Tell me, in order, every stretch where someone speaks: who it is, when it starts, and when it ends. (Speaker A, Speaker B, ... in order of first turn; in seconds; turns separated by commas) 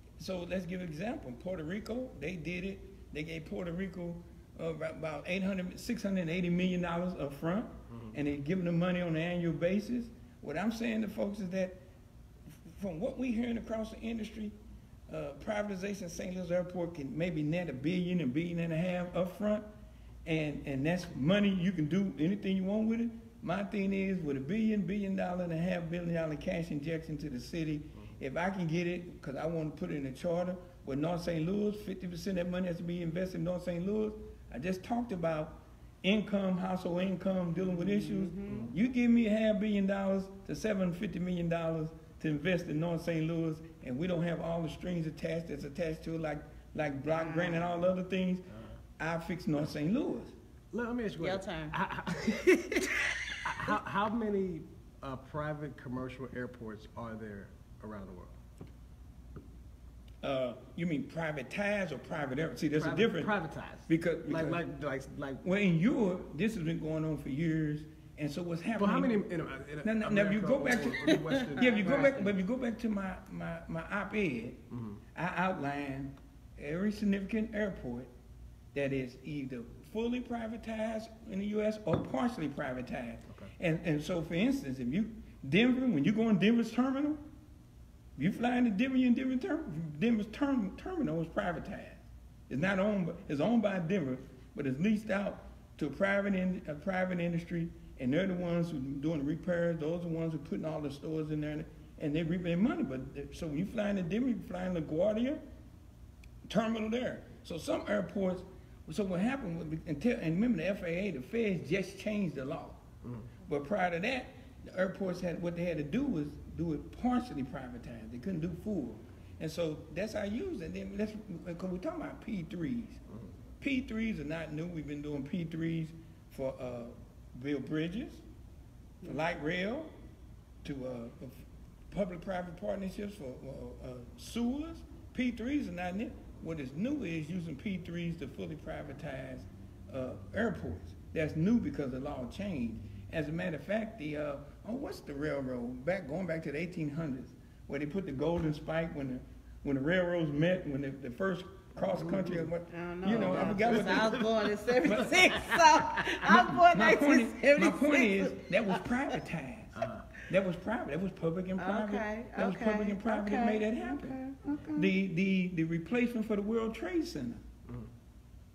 Speaker A: 0.2-11.8, Speaker B: 7.9-8.1, Speaker A: 12.5-14.6, Speaker A: 15.1-19.7, Speaker A: 20.2-48.5, Speaker C: 37.6-38.8, Speaker B: 38.5-38.7, Speaker C: 47.1-47.7, Speaker B: 48.5-48.8, Speaker A: 49.0-50.3, Speaker B: 50.7-58.3, Speaker C: 51.2-51.8, Speaker A: 60.2-63.3, Speaker B: 62.7-65.4, Speaker A: 63.9-64.6, Speaker A: 65.4-69.2, Speaker B: 68.8-72.2, Speaker A: 69.8-74.6, Speaker C: 71.0-72.3, Speaker B: 74.7-75.0, Speaker A: 75.1-78.1, Speaker A: 78.7-87.2, Speaker A: 88.2-105.4, Speaker A: 106.5-112.8, Speaker B: 113.0-113.3, Speaker A: 113.4-123.0, Speaker B: 123.1-123.3, Speaker A: 123.6-128.2, Speaker A: 129.0-129.9, Speaker A: 130.6-154.2, Speaker B: 151.9-152.5, Speaker C: 152.7-158.9, Speaker B: 153.0-156.3, Speaker A: 154.8-155.6, Speaker A: 156.2-164.2, Speaker B: 159.7-160.1, Speaker C: 161.6-164.9, Speaker A: 164.7-167.4